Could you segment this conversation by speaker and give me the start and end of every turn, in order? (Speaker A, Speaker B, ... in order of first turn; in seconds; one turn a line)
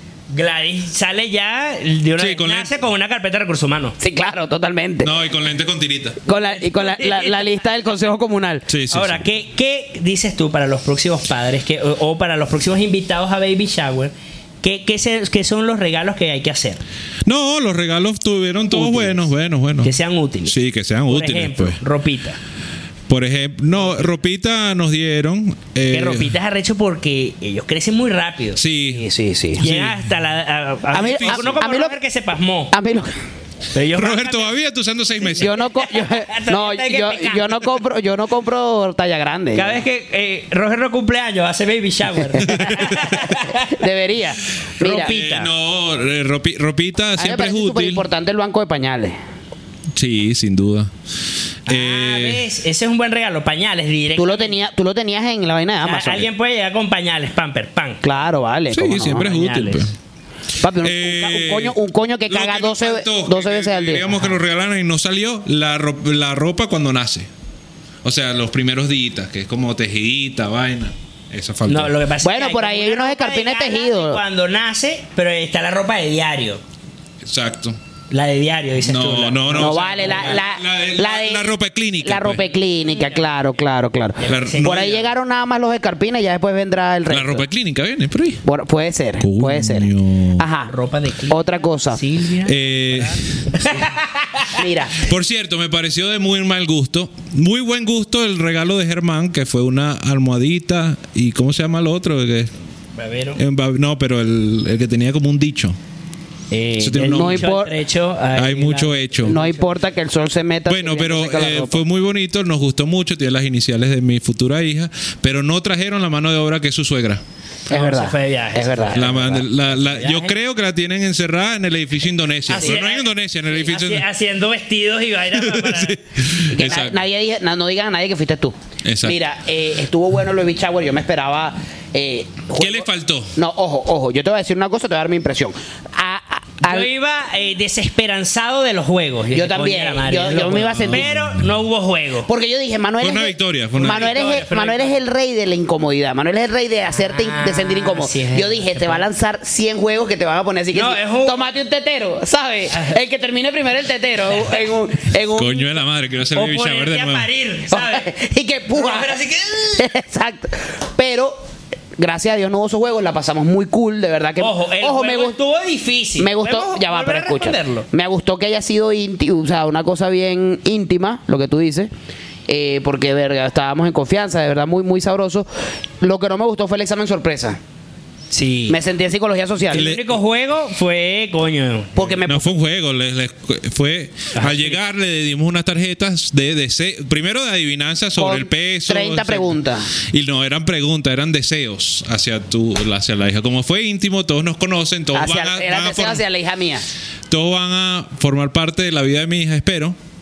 Speaker A: 0.3-4.0
Speaker B: 2.2-2.7
Speaker C: 4.0-5.1
Speaker B: 5.0-6.2
Speaker C: 6.3-8.7
Speaker A: 6.3-7.5
Speaker B: 8.7-9.2
Speaker A: 8.9-16.8
Speaker B: 17.2-19.9
Speaker A: 18.7-19.2
Speaker A: 19.8-20.6
Speaker B: 20.4-21.8
Speaker A: 21.1-22.4
Speaker B: 23.1-26.3
Speaker A: 25.9-28.6
Speaker B: 28.6-29.0
Speaker C: 28.9-29.6
Speaker B: 29.6-30.0
Speaker A: 29.6-32.7
Speaker C: 30.9-32.0
Speaker B: 31.0-31.6
Speaker C: 32.7-33.1
Speaker A: 33.7-34.5
Speaker B: 33.9-35.5
Speaker C: 35.4-39.8
Speaker A: 35.4-37.7
Speaker A: 39.5-43.8
Speaker B: 42.5-43.2
Speaker C: 43.5-45.2
Speaker A: 44.8-45.5
Speaker B: 44.9-48.0
Speaker C: 47.2-49.2
Speaker B: 49.9-50.9
Speaker B: 51.7-52.4
Speaker A: 51.7-54.6
Speaker C: 54.2-56.3
Speaker A: 55.8-58.0
Speaker C: 58.0-59.3
Speaker B: 58.7-59.9
Speaker A: 59.1-59.9
Speaker C: 60.6-64.1
Speaker B: 60.8-61.8
Speaker B: 62.3-67.3
Speaker B: 68.0-71.9
Speaker A: 71.7-76.6
Speaker C: 72.2-74.2
Speaker B: 77.2-77.8
Speaker A: 78.1-80.4
Speaker B: 78.8-82.4
Speaker C: 79.5-81.5
Speaker C: 82.0-87.5
Speaker A: 82.9-83.3
Speaker A: 84.2-85.1
Speaker B: 84.2-85.0
Speaker B: 87.1-88.4
Speaker C: 88.5-90.7
Speaker B: 89.2-90.5
Speaker A: 90.7-94.6
Speaker C: 91.3-92.0
Speaker B: 92.4-93.4
Speaker C: 94.5-95.0
Speaker B: 95.0-102.5
Speaker A: 103.0-103.4
Speaker B: 103.4-105.8
Speaker A: 106.5-109.9
Speaker B: 106.8-107.5
Speaker C: 107.1-107.7
Speaker B: 108.3-109.4
Speaker C: 109.2-111.8
Speaker B: 110.7-117.2
Speaker C: 117.7-119.5
Speaker A: 117.7-120.3
Speaker B: 118.9-124.1
Speaker A: 122.5-126.0
Speaker B: 125.3-127.0
Speaker C: 126.5-136.9
Speaker B: 128.8-129.2
Speaker B: 132.6-133.3
Speaker A: 136.6-142.3
Speaker C: 139.3-141.1
Speaker B: 140.9-141.5
Speaker C: 142.3-155.7
Speaker B: 143.0-144.1
Speaker A: 143.8-145.0
Speaker A: 146.9-149.1
Speaker A: 150.7-151.6
Speaker A: 152.7-153.0
Speaker B: 155.3-157.3
Speaker A: 156.3-158.1
Speaker C: 157.7-159.2
Speaker A: 158.7-159.9
Speaker C: 159.8-161.4
Speaker C: 162.0-165.4
Speaker A: 164.4-167.9
Speaker C: 166.2-171.9
Speaker C: 172.5-175.5
Speaker C: 176.0-177.6
Speaker A: 178.3-178.8
Speaker C: 178.7-179.9
Speaker A: 179.7-182.2
Speaker B: 179.7-180.1
Speaker C: 182.0-182.5
Speaker B: 182.3-196.2
Speaker A: 184.3-184.8
Speaker C: 188.2-189.9
Speaker C: 195.1-196.8
Speaker B: 197.3-200.0